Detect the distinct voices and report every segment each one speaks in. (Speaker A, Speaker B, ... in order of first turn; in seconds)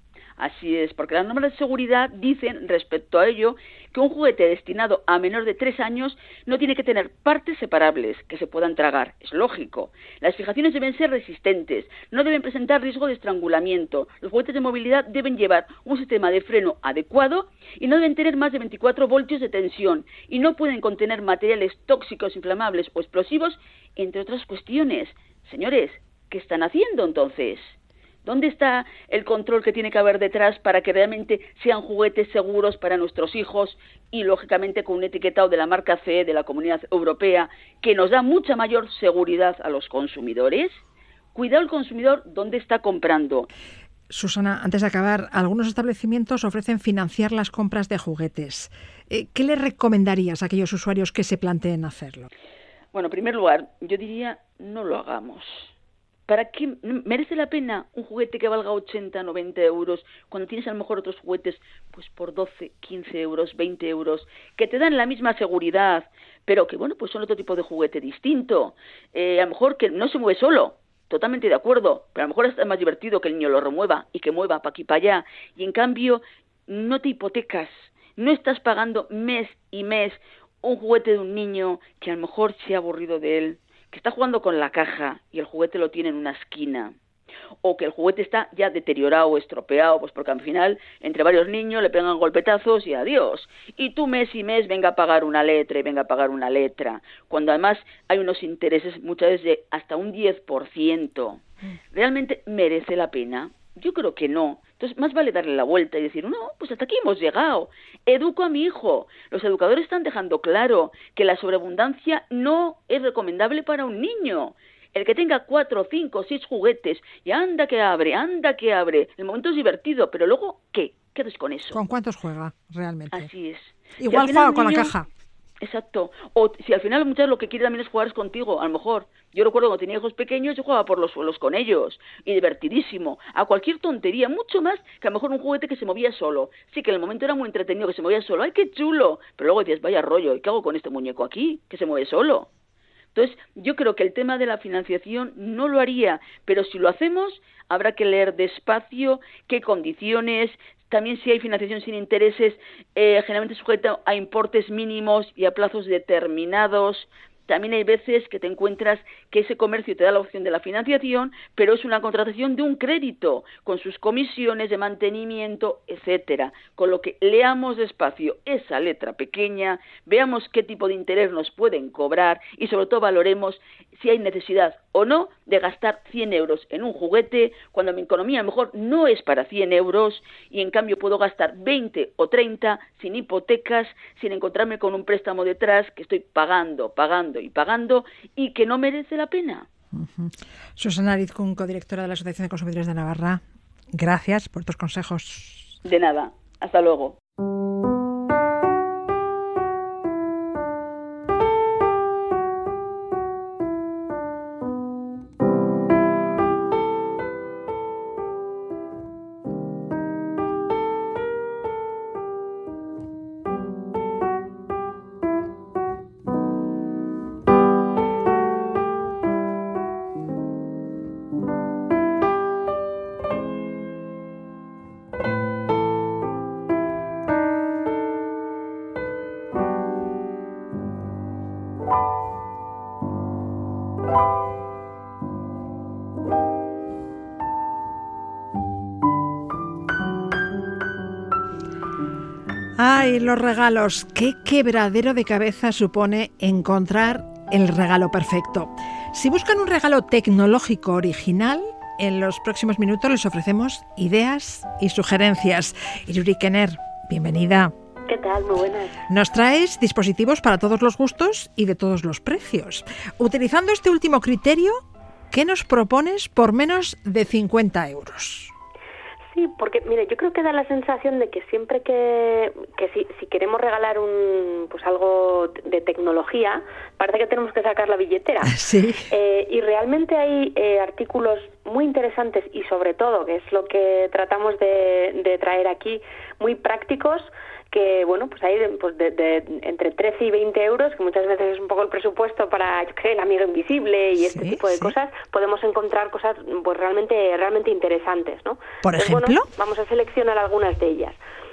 Speaker A: 0.4-40.8, 41.3-43.5, 52.9-55.7, 56.3-86.9, 87.6-121.8, 123.1-124.9, 125.6-142.5, 143.1-189.7, 195.8-197.2
Speaker B: 44.1-52.3, 121.7-123.3, 124.0-125.0, 189.9-193.4, 193.9-195.7, 242.8-257.7, 259.1-264.8, 265.3-268.5, 278.4-279.1, 294.2-294.9, 298.8-299.5
Speaker C: 258.1-259.0, 269.3-278.5, 279.1-301.2